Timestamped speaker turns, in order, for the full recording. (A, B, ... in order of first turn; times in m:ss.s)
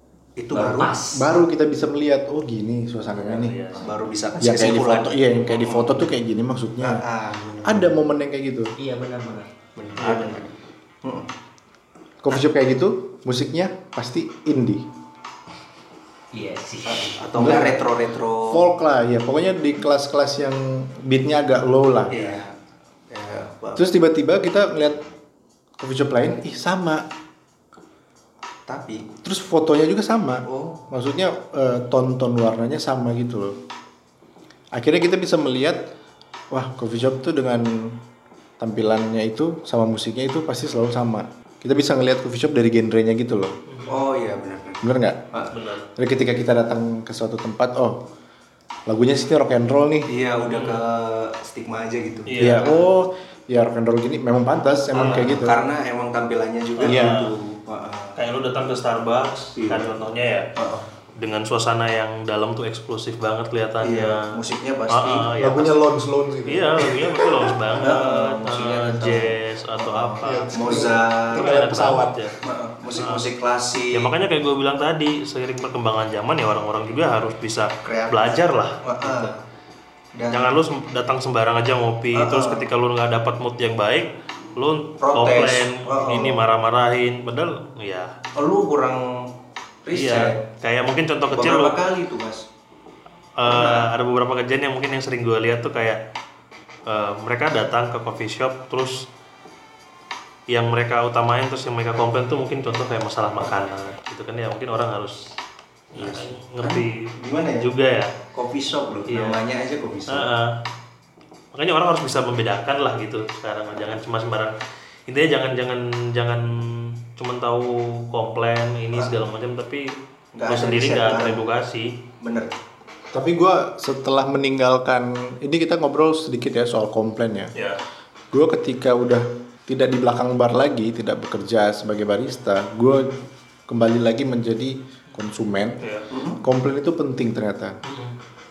0:00.4-0:00.9 A
0:00.5-0:01.3 B
0:01.1-0:03.7 C
0:03.2-0:03.9 D
0:03.8-0:06.0 A
0:04.4-0:07.0 C
0:06.8-0:08.0 A
0:07.6-0:08.8 C
0:08.8-0:09.5 B
0:09.8-0:11.3 A
0:12.2-0:14.9 C
0:16.3-0:17.2 B
0:16.9-0:18.6 A
0:17.4-0:17.8 C
0:18.5-0:22.5 C
0:22.1-0:22.6 A
0:23.1-0:23.9 A
0:23.8-0:25.0 C
0:25.8-0:27.1 C
0:28.7-0:29.1 A
0:29.2-0:33.6 C
0:30.4-0:30.8 A
0:34.7-0:35.9 C
0:36.5-0:38.0 C
0:38.6-0:43.6 C
0:43.7-0:44.0 D
0:43.9-0:45.6 A
0:44.8-0:45.2 C
0:45.5-0:45.9 D
0:46.0-0:48.0 C
0:48.9-0:50.1 C
0:50.1-0:52.8 A
0:50.4-0:50.8 D
0:52.3-0:52.7 D
0:52.4-0:55.6 C
0:54.9-0:55.4 D
0:55.0-0:58.2 A
0:56.8-0:57.3 D
0:56.9-0:57.2 C
0:58.2-1:00.5 D
0:59.6-0:59.9 A
1:00.6-1:00.9 A
1:01.2-1:05.8 D
1:03.8-1:05.4 A
1:05.4-1:07.4 C
1:06.5-1:12.4 D
1:07.7-1:11.6 A
1:10.2-1:12.3 C
1:12.4-1:14.1 A
1:12.9-1:13.2 D
1:13.9-1:19.4 D
1:17.8-1:19.4 A
1:20.2-1:20.5 A
1:20.3-1:28.1 D
1:22.2-1:22.7 A
1:25.0-1:26.4 A
1:28.4-1:29.3 A
1:29.8-1:30.4 A
1:29.9-1:31.8 D
1:31.3-1:32.5 A
1:33.4-1:36.0 D
1:33.4-1:33.9 A
1:36.9-1:39.1 D
1:40.5-1:45.3 D
1:45.9-1:47.1 D
1:46.0-1:47.7 A
1:47.6-1:48.2 D
1:48.3-1:50.3 A
1:49.1-1:49.4 D
1:50.1-1:50.6 D
1:51.5-1:54.6 D
1:55.1-2:01.9 D
2:00.4-2:01.4 A
2:02.2-2:02.5 A
2:03.1-2:07.5 C
2:08.3-2:13.1 C
2:13.7-2:15.8 C
2:15.8-2:16.1 D
2:16.1-2:16.4 A
2:16.4-2:17.8 C
2:17.8-2:18.2 D